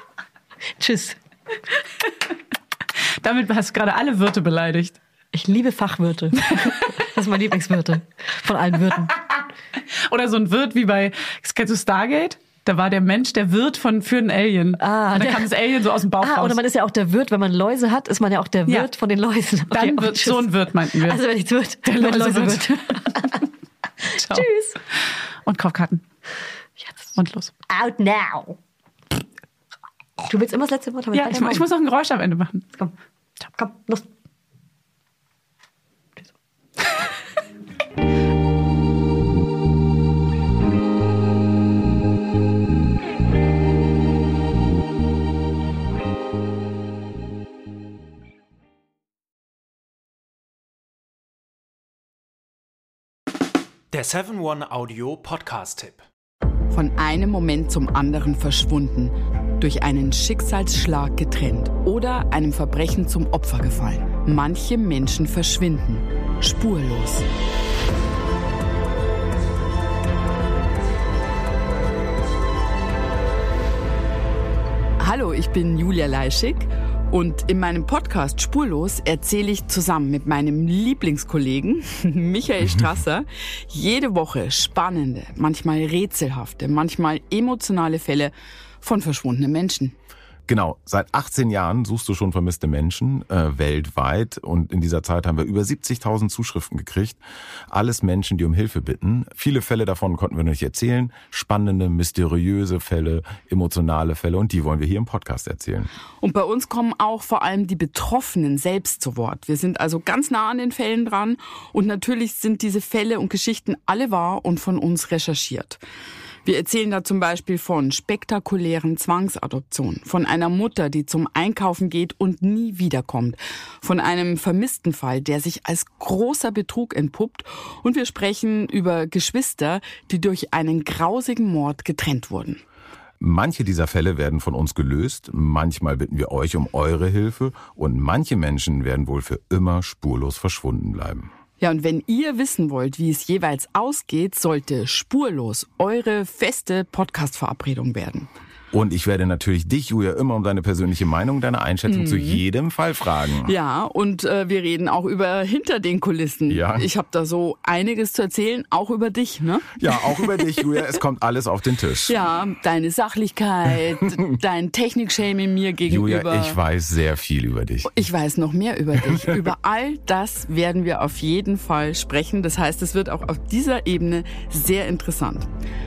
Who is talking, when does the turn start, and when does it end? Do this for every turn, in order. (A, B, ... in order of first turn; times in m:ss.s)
0:00.8-0:01.2 A
0:03.2-0:05.0 B
0:05.3-0:09.2 A
0:06.4-0:07.0 B
0:08.9-0:09.4 B
0:09.9-0:16.6 B
0:14.8-0:15.5 A
0:16.2-0:23.4 A
0:19.7-0:21.2 B
0:21.8-0:23.4 B
0:24.1-0:24.8 A
0:24.1-0:24.5 B
0:25.5-0:26.0 B
0:26.8-0:27.1 A
0:27.2-0:27.5 B
0:27.7-0:28.6 A
0:30.3-0:31.7 A
0:31.1-0:32.7 B
0:33.6-0:34.1 A
0:53.9-0:56.0 C
0:56.7-1:07.3 D
1:15.0-1:29.9 D
1:30.5-1:37.2 E
1:37.7-1:45.9 E
1:46.2-1:55.8 D
1:56.4-2:12.6 D
2:13.2-2:21.3 E
2:21.6-2:28.3 D
2:28.7-2:33.5 E
2:31.9-2:32.4 D
2:33.5-2:41.0 D
2:36.5-2:36.9 E
2:39.8-2:42.2 E
2:42.1-2:46.6 D
2:45.9-2:47.9 E
2:47.9-2:55.5 D